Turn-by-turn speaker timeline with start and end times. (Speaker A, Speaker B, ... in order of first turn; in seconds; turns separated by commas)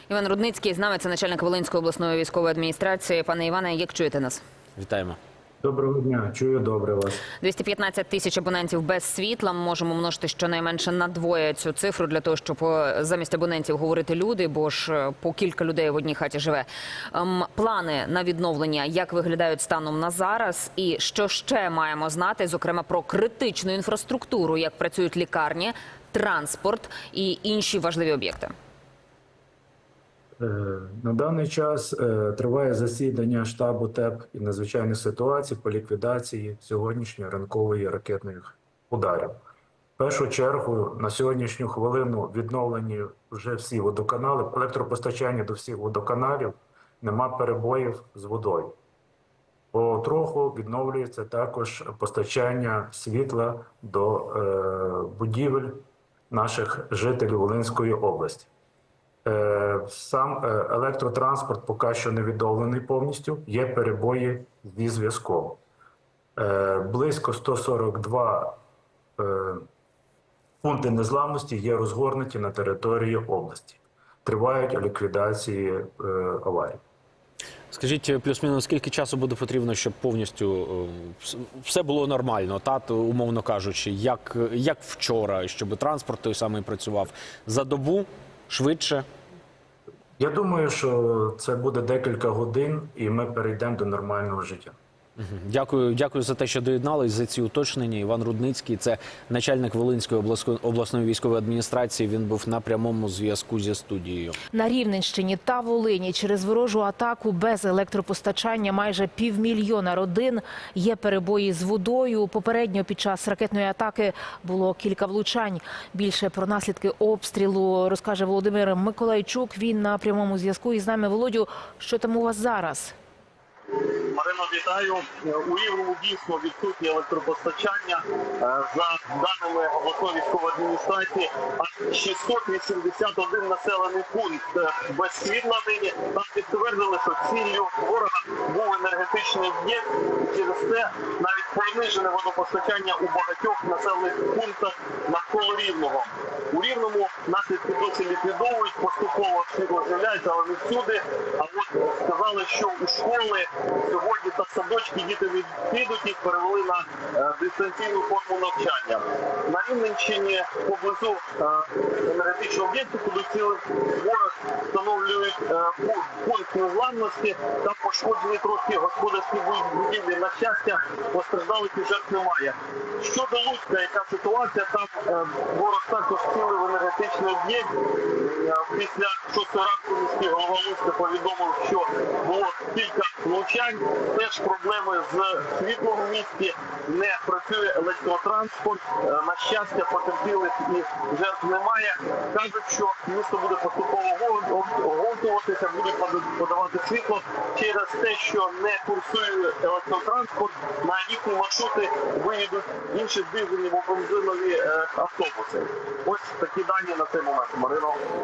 Speaker A: 0.1-4.4, Speaker B: 4.8-5.2, Speaker C: 5.6-7.3, Speaker A: 7.4-28.5, Speaker C: 30.4-39.4, Speaker C: 40.0-48.8, Speaker C: 49.7-58.5, Speaker C: 59.2-65.6, Speaker C: 66.4-68.6, Speaker C: 69.2-69.7, Speaker C: 70.6-76.8, Speaker B: 77.7-89.1, Speaker C: 90.2-94.8, Speaker B: 95.2-104.4, Speaker D: 104.5-122.9, Speaker E: 124.1-208.0